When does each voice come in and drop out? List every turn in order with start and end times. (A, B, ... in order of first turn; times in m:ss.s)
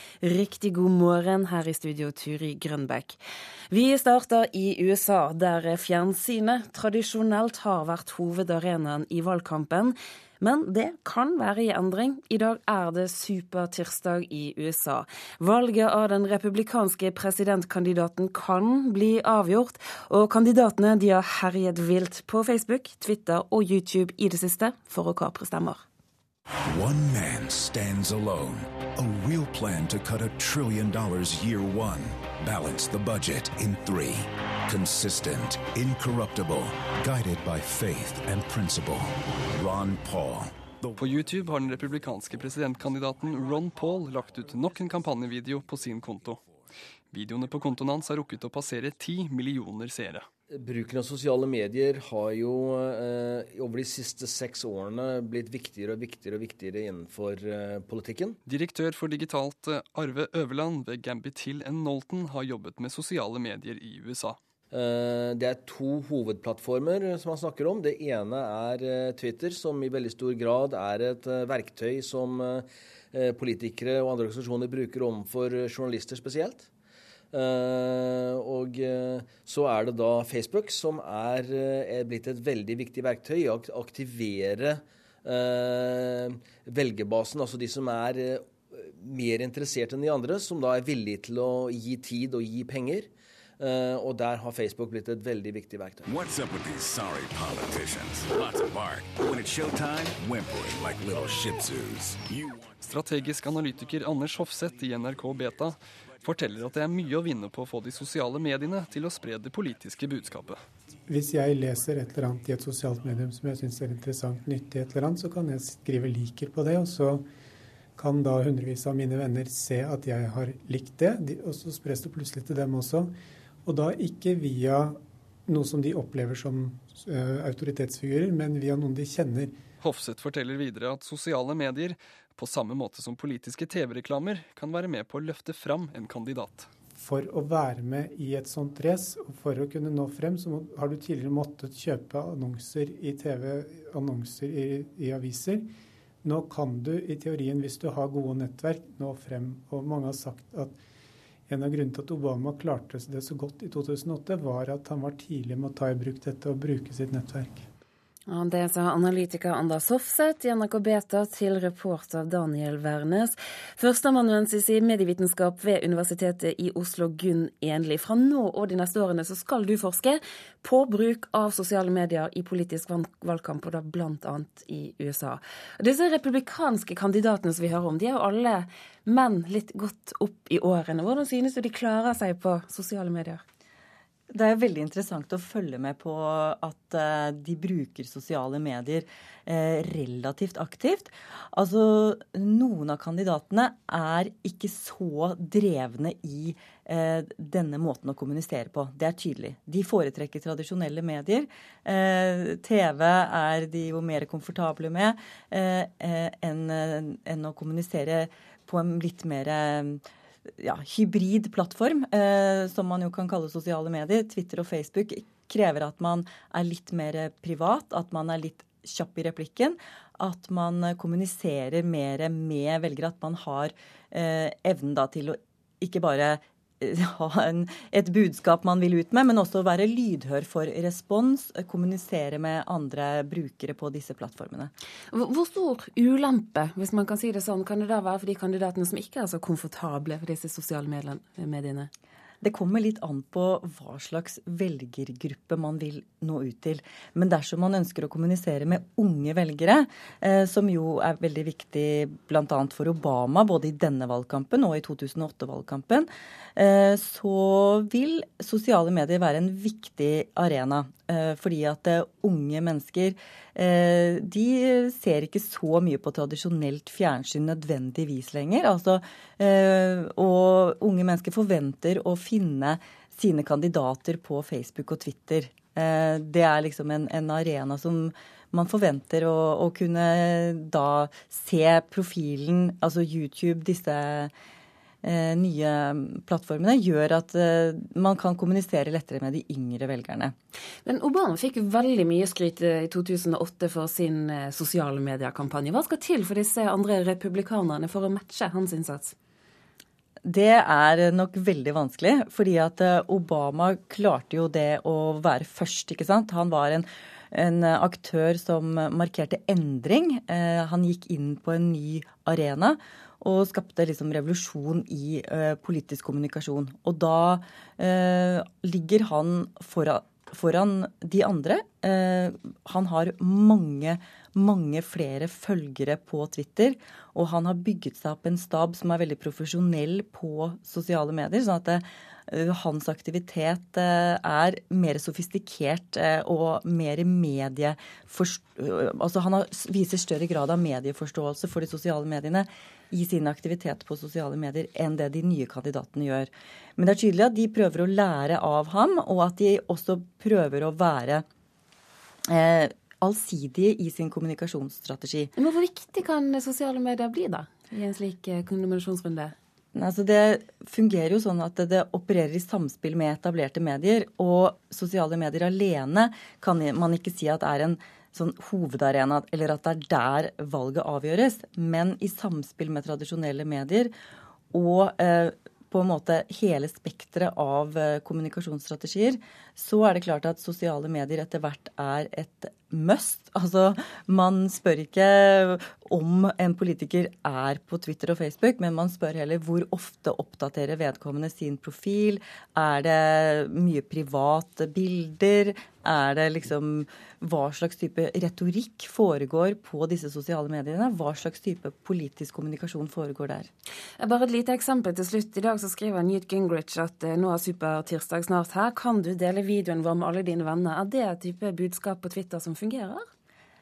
0:00.2-0:03.2 A
0:03.7-0:25.8 A
0:26.7-0:41.0 B
0:41.0-0:46.4 C
0:47.1-0:50.3 C
0:50.5-0:58.4 D
0:58.4-1:04.4 C
1:04.7-1:16.7 D
1:17.3-1:36.0 D
1:36.0-1:42.6 B
1:42.8-1:50.6 C
1:51.1-1:57.2 E
1:58.0-2:03.1 E
2:03.6-2:09.6 E
2:09.8-2:16.7 C
2:16.9-2:25.7 E
2:26.2-2:30.8 E
2:31.5-2:37.6 E
2:38.3-3:03.4 A
3:04.3-3:30.0 F
3:30.6-3:54.7 F
3:55.1-4:01.9 A
4:02.4-4:44.3 F
4:45.0-4:50.3 F
4:50.8-4:59.2 A
5:00.2-5:51.2 F
5:52.3-5:55.3 F
5:55.4-5:59.3 A
5:59.7-6:13.9 F
6:14.5-6:43.5 F
6:44.0-6:53.0 A